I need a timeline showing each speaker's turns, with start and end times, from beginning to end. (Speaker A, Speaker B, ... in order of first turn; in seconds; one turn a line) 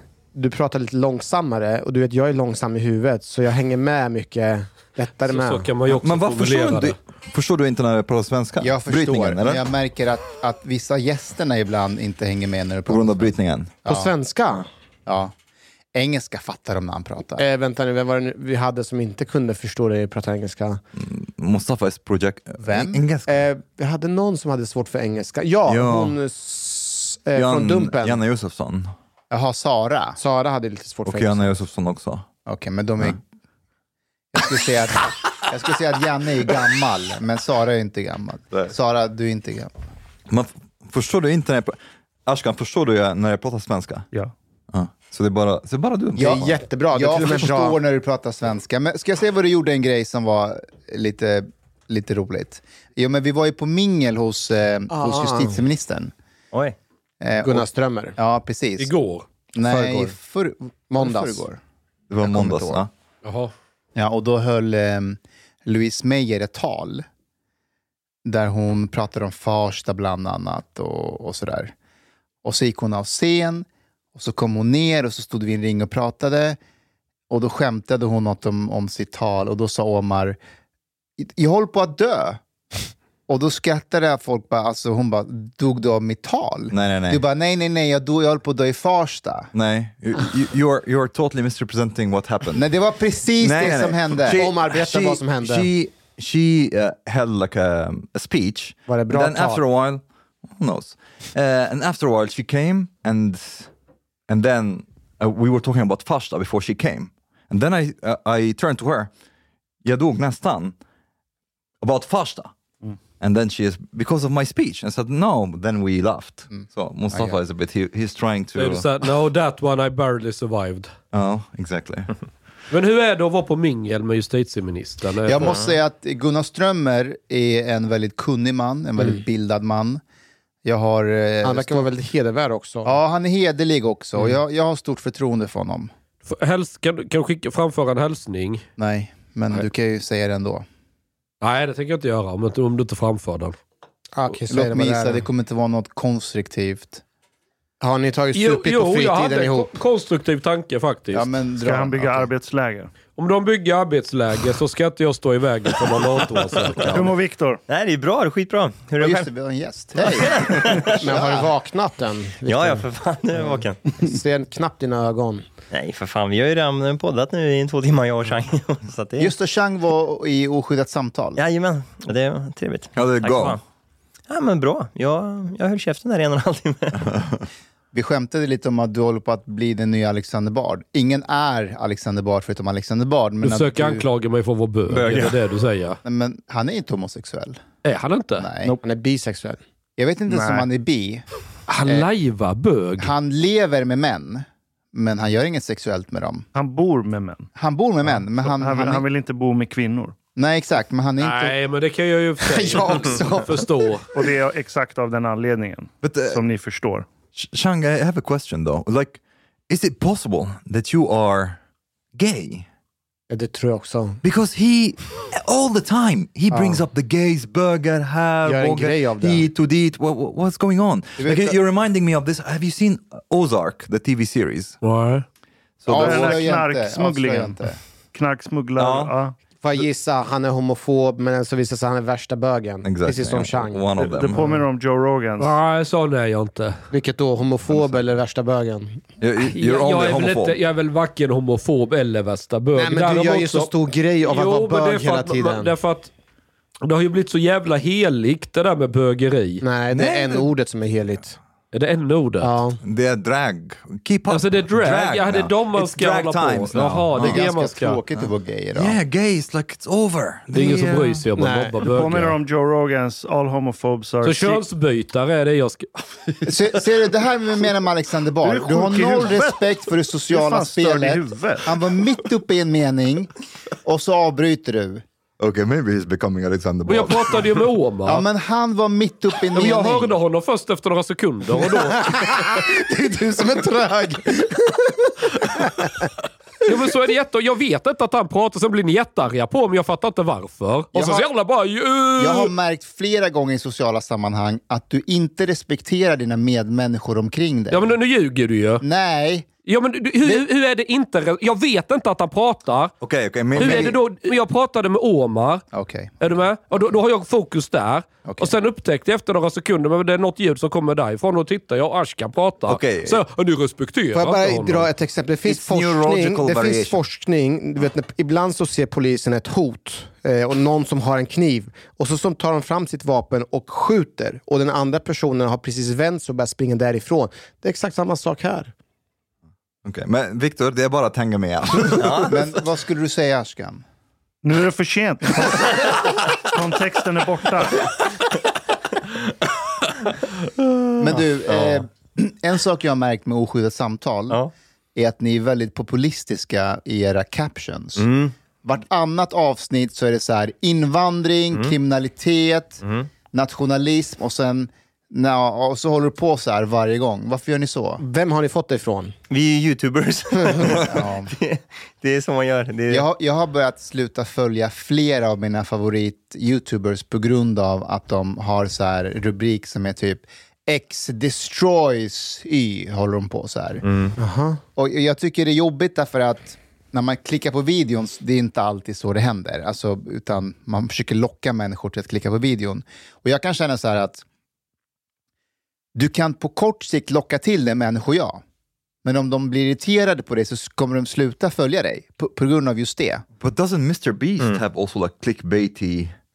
Speaker A: 0.3-5.7
Speaker B: 5.3-7.0
Speaker C: 5.9-9.6
Speaker D: 8.6-14.1
Speaker C: 12.9-13.8
Speaker A: 13.9-14.7
Speaker D: 15.1-15.3
Speaker D: 15.9-17.4
Speaker A: 17.4-20.8
Speaker C: 21.0-23.4
Speaker D: 22.6-23.0
Speaker A: 23.3-28.2
Speaker C: 25.7-26.2
Speaker C: 27.4-28.9
Speaker D: 29.3-30.2
Speaker A: 30.2-31.6
Speaker C: 31.1-32.2
Speaker D: 32.5-33.2
Speaker D: 34.3-39.7
Speaker C: 40.3-44.1
Speaker C: 44.7-46.5
Speaker D: 46.1-56.1
Speaker A: 46.2-47.8
Speaker A: 54.9-55.6
Speaker E: 56.5-56.8
Speaker D: 57.2-58.9
Speaker A: 57.4-58.2
Speaker B: 58.8-59.3
Speaker D: 59.5-61.6
Speaker A: 59.6-60.2
Speaker A: 60.9-61.4
Speaker C: 62.1-62.9
Speaker D: 62.3-62.8
Speaker B: 63.2-63.5
Speaker D: 64.0-67.0
Speaker D: 68.2-71.7
Speaker D: 72.4-76.6
Speaker D: 77.3-80.4
Speaker D: 81.2-82.4
Speaker D: 83.3-89.5
Speaker C: 86.7-87.2
Speaker C: 89.5-92.6
Speaker D: 92.5-94.5
Speaker C: 93.4-103.7
Speaker A: 94.3-95.7
Speaker A: 98.9-99.6
Speaker C: 104.3-109.1
Speaker C: 109.8-110.8
Speaker C: 111.8-112.5
Speaker C: 113.2-118.9
Speaker D: 116.5-117.4
Speaker B: 118.6-120.9
Speaker C: 121.1-122.1
Speaker B: 122.7-125.4
Speaker D: 125.3-130.0
Speaker E: 125.4-125.7
Speaker D: 130.7-131.9
Speaker A: 131.4-133.0
Speaker D: 132.8-135.9
Speaker B: 136.2-138.7
Speaker D: 138.8-140.7
Speaker B: 141.4-143.6
Speaker A: 144.2-145.2
Speaker D: 144.5-147.0
Speaker A: 147.8-149.8
Speaker B: 148.3-151.3
Speaker D: 151.1-152.3
Speaker F: 151.6-152.9
Speaker B: 153.2-157.1
Speaker E: 156.8-157.0
Speaker F: 156.8-157.6
Speaker E: 157.7-159.3
Speaker D: 159.0-161.5
Speaker E: 160.0-161.0
Speaker A: 160.9-162.9
Speaker E: 162.5-163.8
Speaker A: 163.4-165.4
Speaker E: 165.7-169.3
Speaker D: 169.2-171.4
Speaker E: 171.4-173.6
Speaker C: 173.0-173.6
Speaker E: 174.3-177.2
Speaker D: 177.9-184.1
Speaker B: 183.4-186.0
Speaker C: 184.9-185.4
Speaker D: 186.1-187.6
Speaker B: 187.8-188.5
Speaker D: 188.4-188.8
Speaker A: 188.8-189.6
Speaker D: 190.0-191.3
Speaker F: 190.3-190.7
Speaker B: 191.7-193.1
Speaker D: 191.8-192.1
Speaker D: 193.0-196.5
Speaker F: 196.5-197.5
Speaker D: 197.6-199.1
Speaker F: 198.1-200.2
Speaker D: 200.4-201.6
Speaker B: 201.2-204.1
Speaker A: 202.4-203.7
Speaker F: 204.1-207.1
Speaker C: 206.0-206.4
Speaker C: 207.3-211.6
Speaker C: 212.1-212.7
Speaker A: 213.3-214.2
Speaker C: 214.2-224.8
Speaker A: 216.5-216.8
Speaker A: 218.4-219.5
Speaker D: 221.2-221.6
Speaker B: 224.8-225.3
Speaker C: 225.8-226.4
Speaker D: 225.9-227.8
Speaker F: 225.9-229.4
Speaker C: 228.8-229.1
Speaker A: 229.6-233.8
Speaker C: 232.8-234.6
Speaker F: 234.0-235.5
Speaker B: 235.4-236.8
Speaker A: 236.9-239.0
Speaker C: 237.7-237.9
Speaker C: 239.2-240.6
Speaker B: 239.4-243.7
Speaker A: 242.8-245.8
Speaker B: 244.2-246.1
Speaker B: 246.8-249.6
Speaker A: 249.6-251.4
Speaker C: 249.9-250.5
Speaker B: 251.7-252.5
Speaker A: 252.4-252.8
Speaker C: 252.8-257.5
Speaker B: 254.3-258.0
Speaker D: 257.2-259.0
Speaker C: 258.2-261.3
Speaker B: 260.5-262.4
Speaker A: 261.4-261.8
Speaker F: 261.9-264.6
Speaker B: 264.2-266.5
Speaker D: 266.5-273.3
Speaker F: 268.4-271.8
Speaker D: 273.8-275.0
Speaker C: 275.4-277.6
Speaker B: 276.9-278.2
Speaker D: 278.1-280.1
Speaker B: 279.5-282.2
Speaker A: 283.4-284.2
Speaker B: 286.6-292.5
Speaker D: 290.9-291.3
Speaker D: 292.2-298.0
Speaker B: 297.7-298.8
Speaker D: 298.8-299.5
Speaker B: 299.7-302.9
Speaker C: 303.0-304.0
Speaker B: 303.5-305.6
Speaker D: 305.7-306.2
Speaker B: 306.2-314.9
Speaker D: 308.2-308.5
Speaker C: 312.7-313.2
Speaker A: 314.1-328.7
Speaker C: 315.4-317.0
Speaker C: 329.9-332.4
Speaker E: 332.0-332.3
Speaker D: 332.1-333.8
Speaker F: 334.4-337.8
Speaker D: 341.0-344.4
Speaker D: 345.0-348.1
Speaker E: 348.0-348.3
Speaker D: 348.6-358.0
Speaker E: 352.8-353.1
Speaker A: 358.0-359.1
Speaker E: 359.3-363.1
Speaker D: 360.8-361.3
Speaker D: 362.9-373.8
Speaker E: 373.8-374.1
Speaker A: 374.2-374.6
Speaker D: 374.8-384.2
Speaker D: 385.9-388.4
Speaker D: 389.1-393.2
Speaker C: 393.4-396.1